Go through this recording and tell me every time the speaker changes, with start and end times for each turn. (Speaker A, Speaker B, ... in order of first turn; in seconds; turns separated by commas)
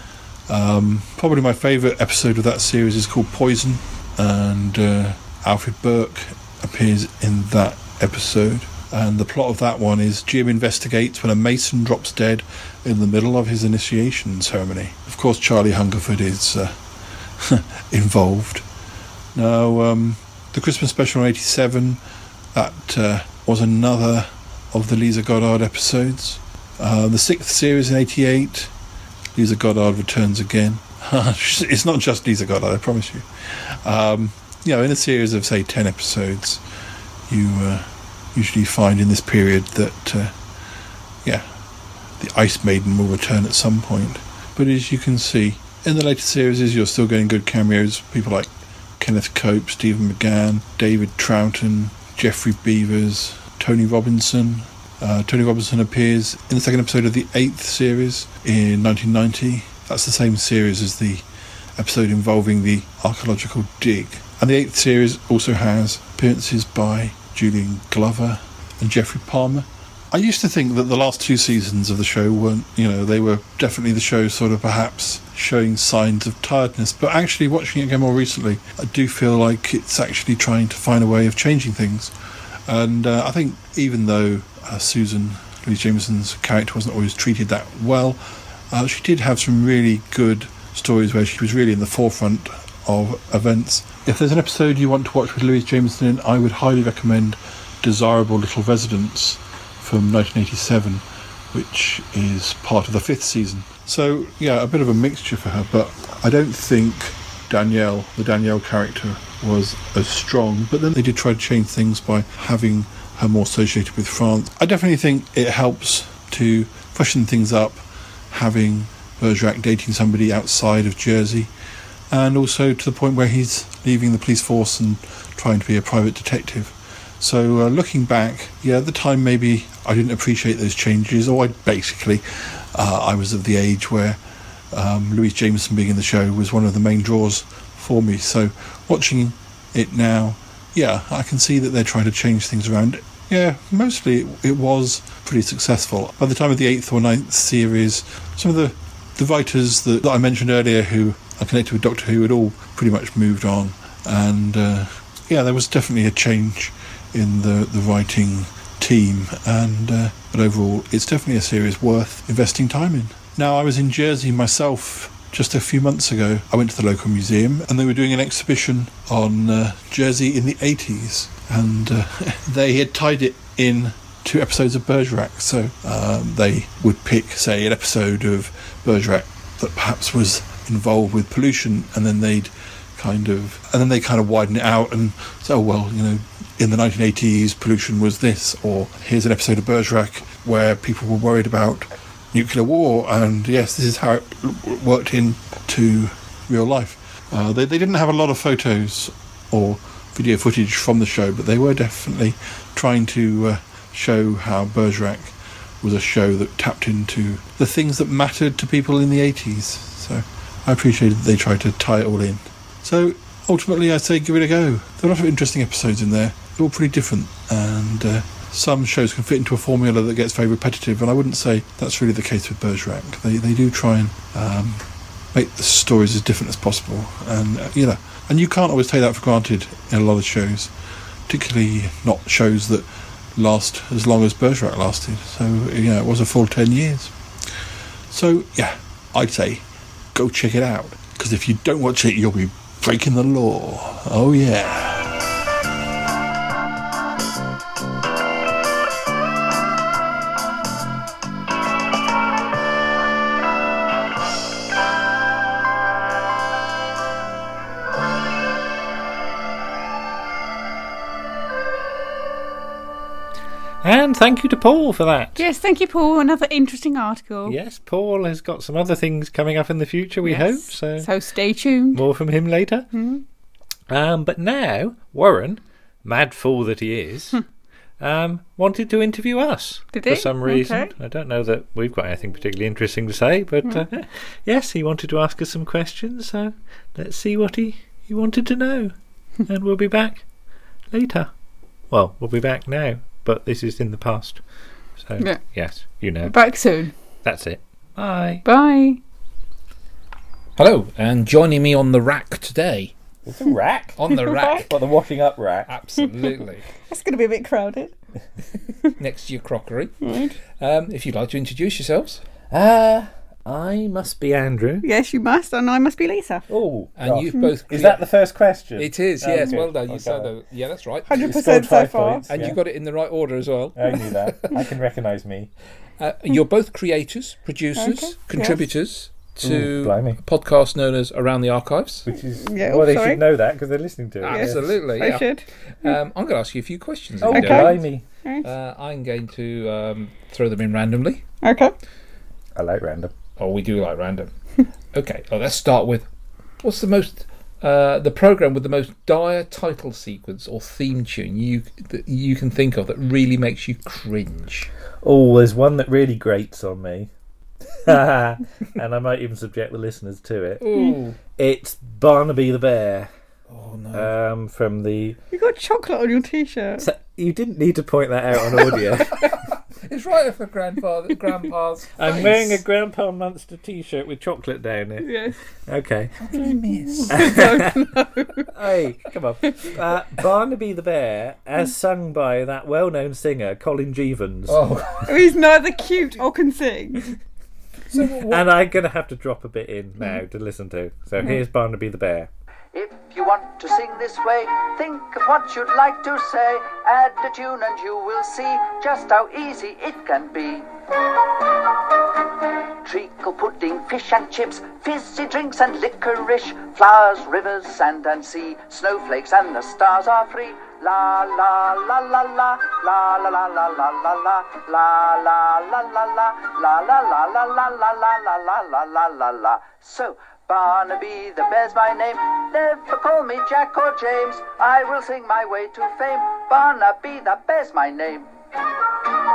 Speaker A: 0.5-16.8, Speaker A: 17.4-18.6, Speaker A: 19.3-22.0, Speaker A: 22.5-28.7, Speaker A: 29.4-36.6, Speaker A: 37.3-40.4, Speaker A: 41.2-41.6, Speaker A: 42.2-82.1, Speaker A: 82.7-121.5, Speaker A: 122.1-230.7, Speaker A: 231.3-237.1, Speaker A: 238.1-245.2, Speaker B: 263.8-265.4, Speaker C: 265.4-267.6, Speaker B: 267.5-271.1, Speaker C: 270.2-272.0, Speaker B: 271.9-272.9, Speaker C: 272.9-273.2, Speaker B: 273.9-277.4, Speaker B: 278.0-288.9, Speaker C: 279.9-280.9, Speaker B: 289.5-290.2, Speaker B: 290.9-291.3, Speaker B: 291.9-294.4, Speaker B: 295.0-296.3, Speaker C: 296.2-296.9, Speaker B: 297.2-298.4, Speaker C: 298.4-299.0, Speaker D: 300.6-302.9, Speaker B: 303.3-304.0, Speaker D: 304.0-304.8, Speaker C: 304.1-304.7, Speaker B: 304.6-305.7, Speaker D: 305.7-306.7, Speaker C: 306.0-306.3, Speaker C: 306.9-307.9, Speaker D: 309.0-312.2, Speaker C: 310.0-310.4, Speaker B: 312.5-314.9, Speaker C: 314.8-316.5, Speaker B: 316.5-320.3, Speaker D: 317.0-318.1, Speaker D: 318.8-321.4, Speaker C: 321.1-322.4, Speaker B: 321.1-322.6, Speaker D: 322.3-324.5, Speaker B: 323.8-325.5, Speaker D: 326.0-332.1, Speaker C: 327.8-328.6, Speaker B: 329.4-330.2, Speaker B: 332.1-334.7, Speaker C: 332.4-333.2, Speaker D: 334.2-337.9, Speaker C: 334.3-335.9, Speaker B: 337.2-338.1, Speaker C: 337.3-338.5, Speaker D: 338.4-341.2, Speaker C: 341.4-341.7, Speaker B: 342.6-343.1, Speaker D: 343.4-344.3, Speaker D: 344.9-346.1, Speaker D: 346.6-354.7, Speaker B: 355.0-357.1, Speaker B: 357.8-360.7, Speaker D: 360.6-361.2, Speaker B: 361.4-363.1, Speaker D: 363.5-364.1, Speaker B: 363.9-365.2, Speaker C: 365.3-366.9, Speaker B: 366.8-369.2, Speaker D: 369.1-372.6, Speaker B: 372.0-376.1, Speaker C: 375.0-375.4, Speaker D: 376.2-377.8, Speaker C: 376.3-378.4, Speaker B: 377.1-377.7, Speaker B: 378.5-384.7, Speaker D: 384.5-385.3, Speaker C: 385.1-387.1, Speaker D: 387.9-388.5, Speaker B: 388.3-392.3, Speaker E: 392.7-400.7, Speaker E: 402.8-428.3